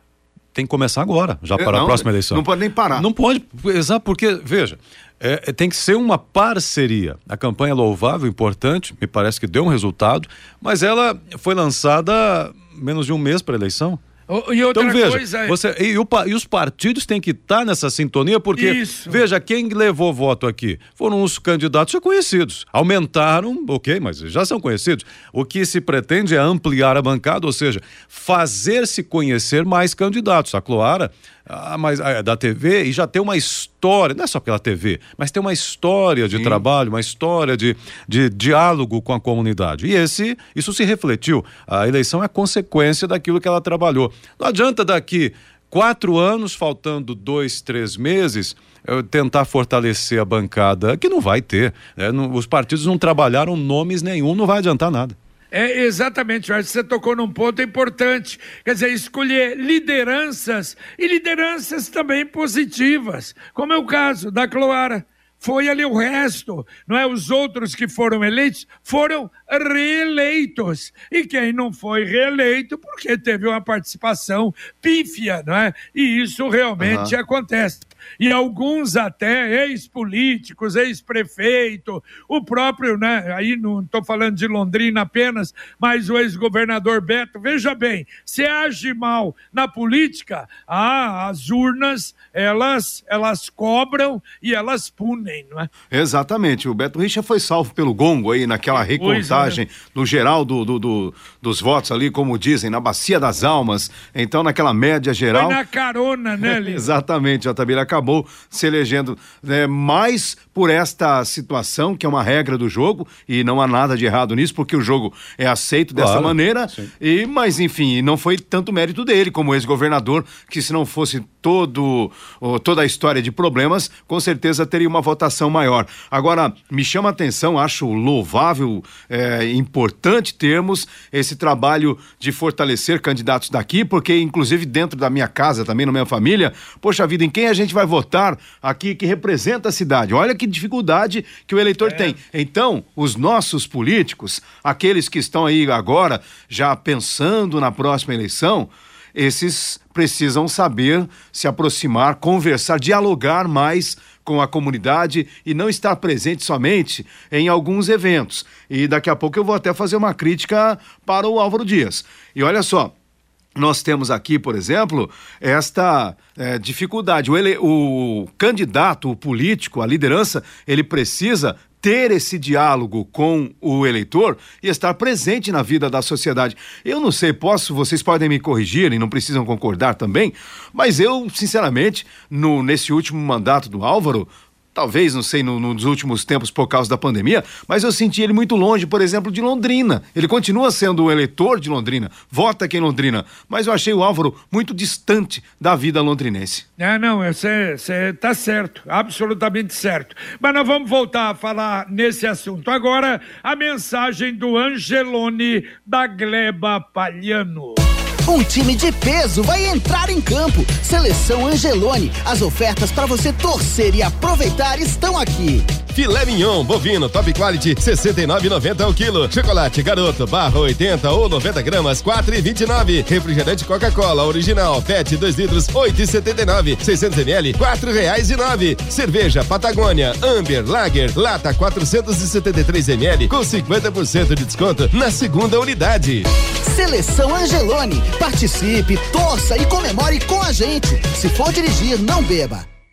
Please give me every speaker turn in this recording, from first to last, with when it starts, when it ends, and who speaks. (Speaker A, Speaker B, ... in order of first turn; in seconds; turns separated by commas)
Speaker A: 0.6-14.0, Speaker B: 1.6-3.1, Speaker C: 14.3-15.6, Speaker A: 14.8-55.2, Speaker C: 18.6-19.2, Speaker B: 36.3-36.6, Speaker C: 55.5-95.7, Speaker B: 76.8-77.1, Speaker B: 95.9-105.6, Speaker C: 98.9-99.6, Speaker C: 105.3-106.8, Speaker B: 106.5-162.9, Speaker A: 116.0-116.9, Speaker C: 141.8-142.1, Speaker B: 163.6-196.7, Speaker C: 196.8-207.8, Speaker D: 208.2-215.7, Speaker E: 215.9-236.2, Speaker D: 236.7-242.7